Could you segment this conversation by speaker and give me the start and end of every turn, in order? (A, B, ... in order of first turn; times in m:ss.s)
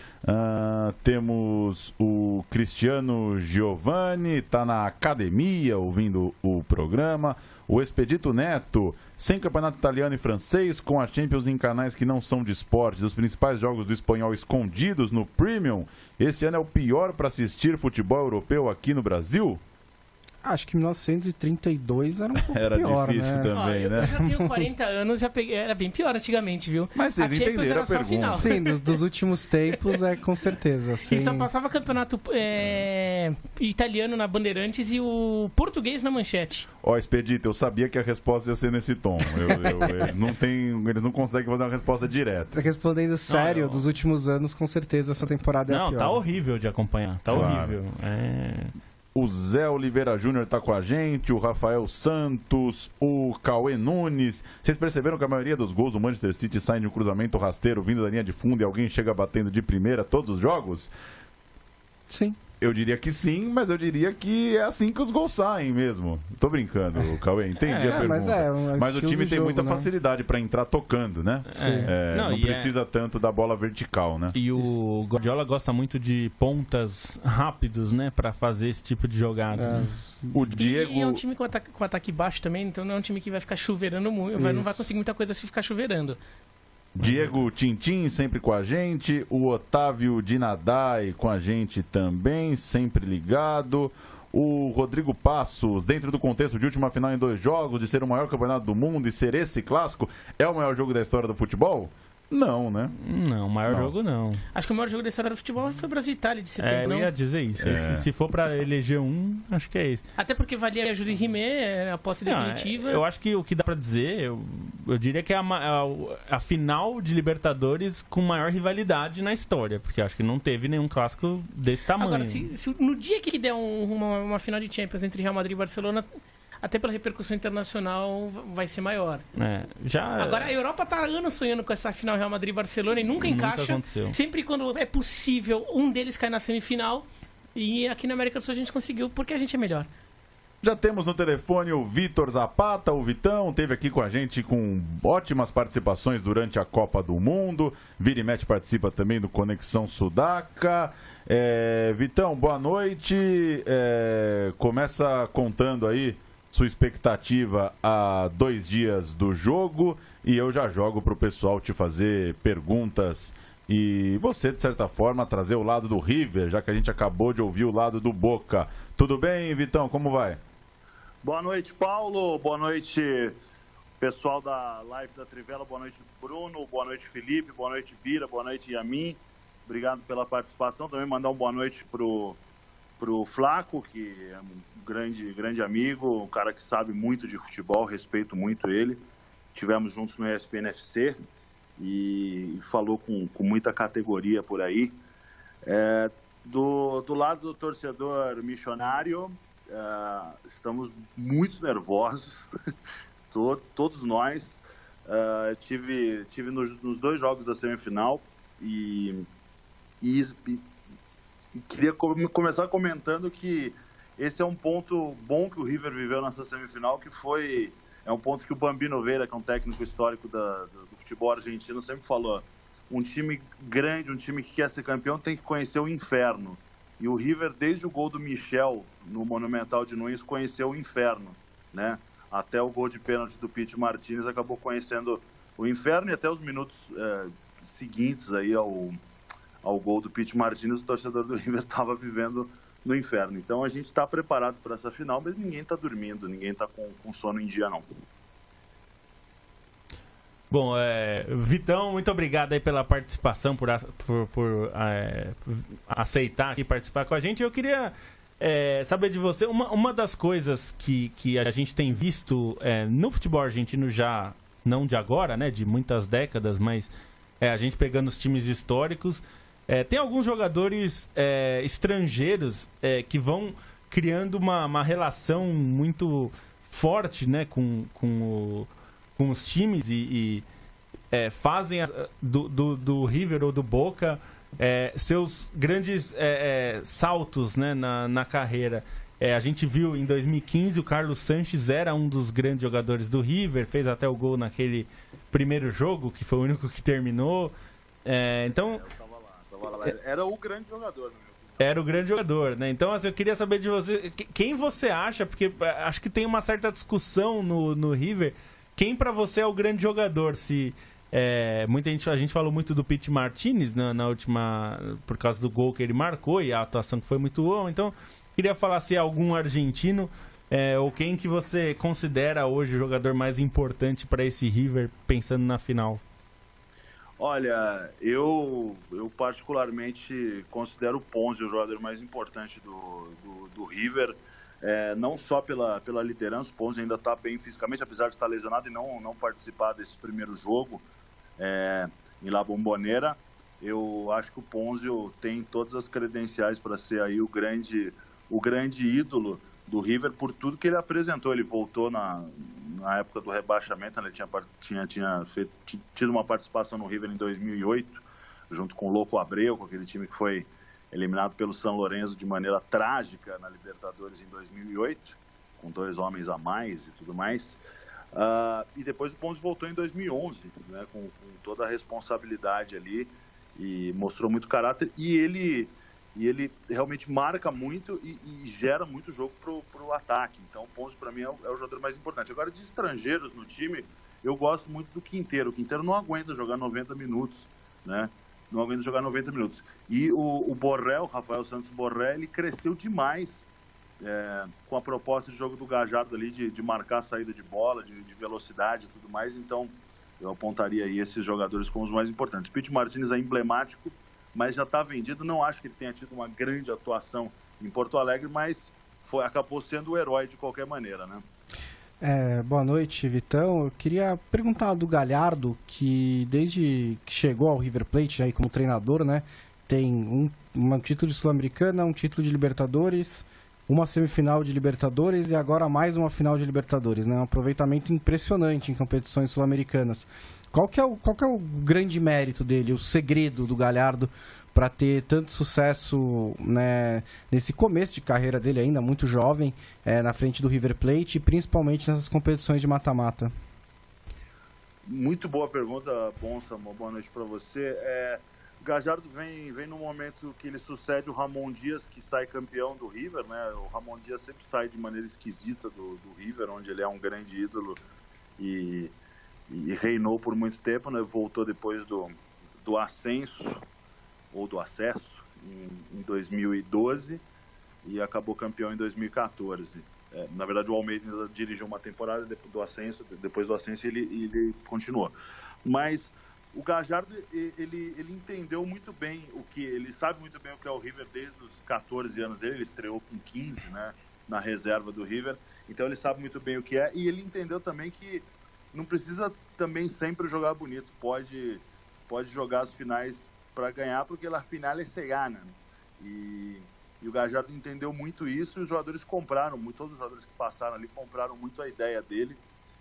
0:00.2-0:19.6 A
0:20.4-0:24.6 B
0:22.5-0:24.2 A
0:23.5-0:28.7 C
0:26.9-0:28.5 A
0:28.3-0:31.5 B
0:31.1-0:36.7 C
0:36.8-0:42.6 A
0:42.5-0:46.2 B
0:43.3-0:43.9 D
0:45.7-0:48.7 D
0:47.3-0:47.8 A
0:49.1-1:00.9 A
1:02.1-1:02.4 B
1:02.6-1:14.3 A
1:07.6-1:08.2 D
1:07.8-1:09.9 B
1:11.5-1:12.7 D
1:11.5-1:11.9 B
1:14.3-1:19.9 D
1:19.5-1:20.4 B
1:20.3-1:21.2 A
1:20.6-1:26.2 C
1:24.4-1:24.8 B
1:27.0-1:42.9 A
1:27.0-1:27.3 D
1:43.0-1:44.4 D
1:44.5-1:47.1 C
1:46.6-1:50.0 D
1:47.6-1:48.1 A
1:50.2-1:53.0 C
1:52.2-2:02.5 D
2:02.0-2:06.1 C
2:06.6-2:09.2 C
2:09.4-2:10.5 D
2:10.2-2:19.9 C
2:13.2-2:14.1 D
2:20.6-2:50.4 A
2:51.2-2:53.4 E
2:54.0-3:02.4 E
3:03.0-3:11.2 E
3:11.8-3:15.0 E
3:15.6-3:22.5 E
3:23.3-3:29.3 E
3:30.0-3:30.7 E
3:31.5-3:59.0 E
3:59.6-4:07.9 E
4:10.5-4:26.9 D
4:27.4-4:40.4 D
4:41.1-4:57.5 D
4:58.0-4:58.8 D
4:58.5-5:01.7 E
5:01.6-5:26.0 D
5:27.2-5:40.8 E
5:41.4-6:07.6 E
6:08.1-6:33.4 E
6:34.0-6:51.2 E
6:52.0-7:23.3 B
7:24.9-7:37.8 E
7:38.4-7:38.9 E
7:39.5-7:43.6 E
7:44.3-7:47.2 E
7:47.8-8:22.4 E